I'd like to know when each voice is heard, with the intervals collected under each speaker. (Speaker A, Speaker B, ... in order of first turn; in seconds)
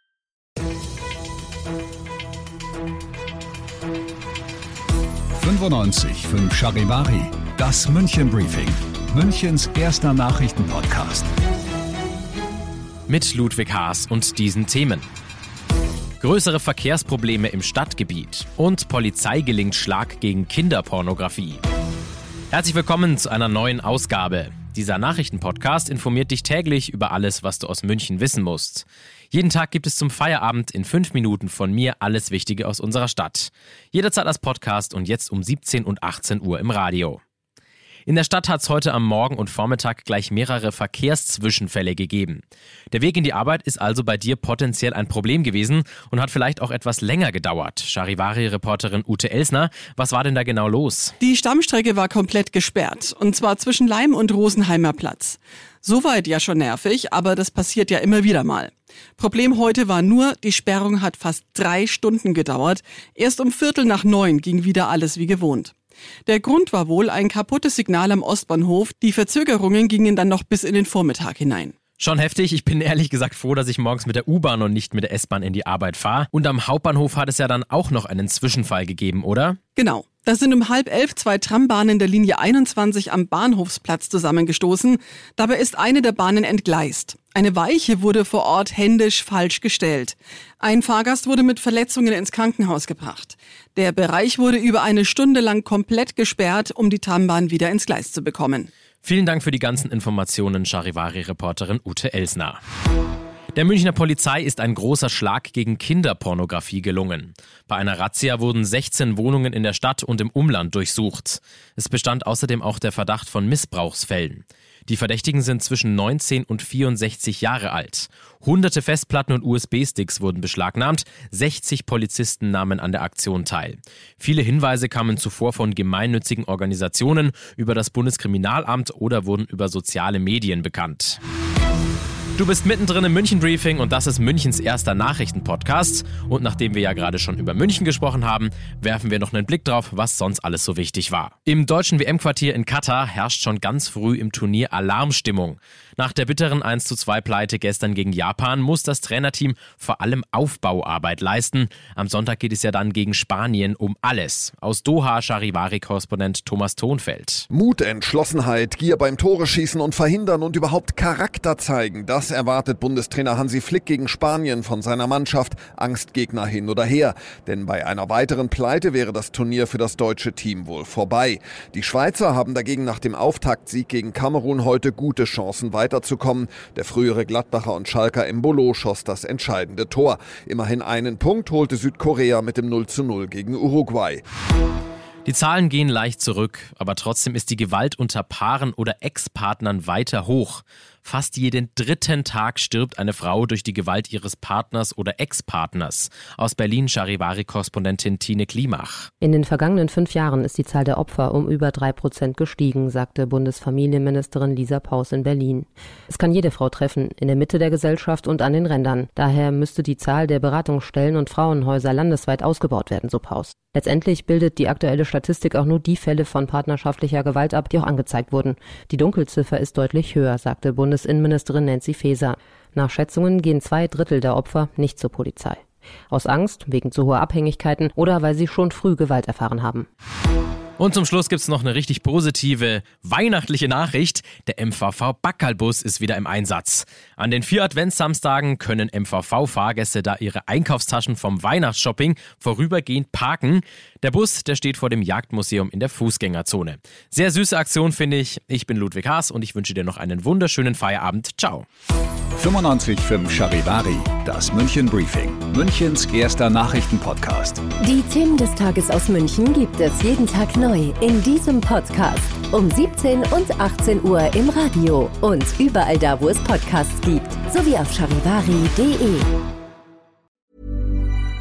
Speaker A: 5.4-11.3, 252.4-257.6
Speaker B: 13.1-15.1, 16.2-21.6, 22.5-37.2, 38.1-51.1, 72.0-79.6, 99.0-102.6, 103.5-131.2, 132.4-157.5, 185.2-199.1, 230.8-251.7
Speaker C: 51.2-65.7, 66.3-71.7, 79.8-98.7
Speaker D: 157.5-184.2
Speaker E: 199.2-229.9
Speaker F: 257.8-269.3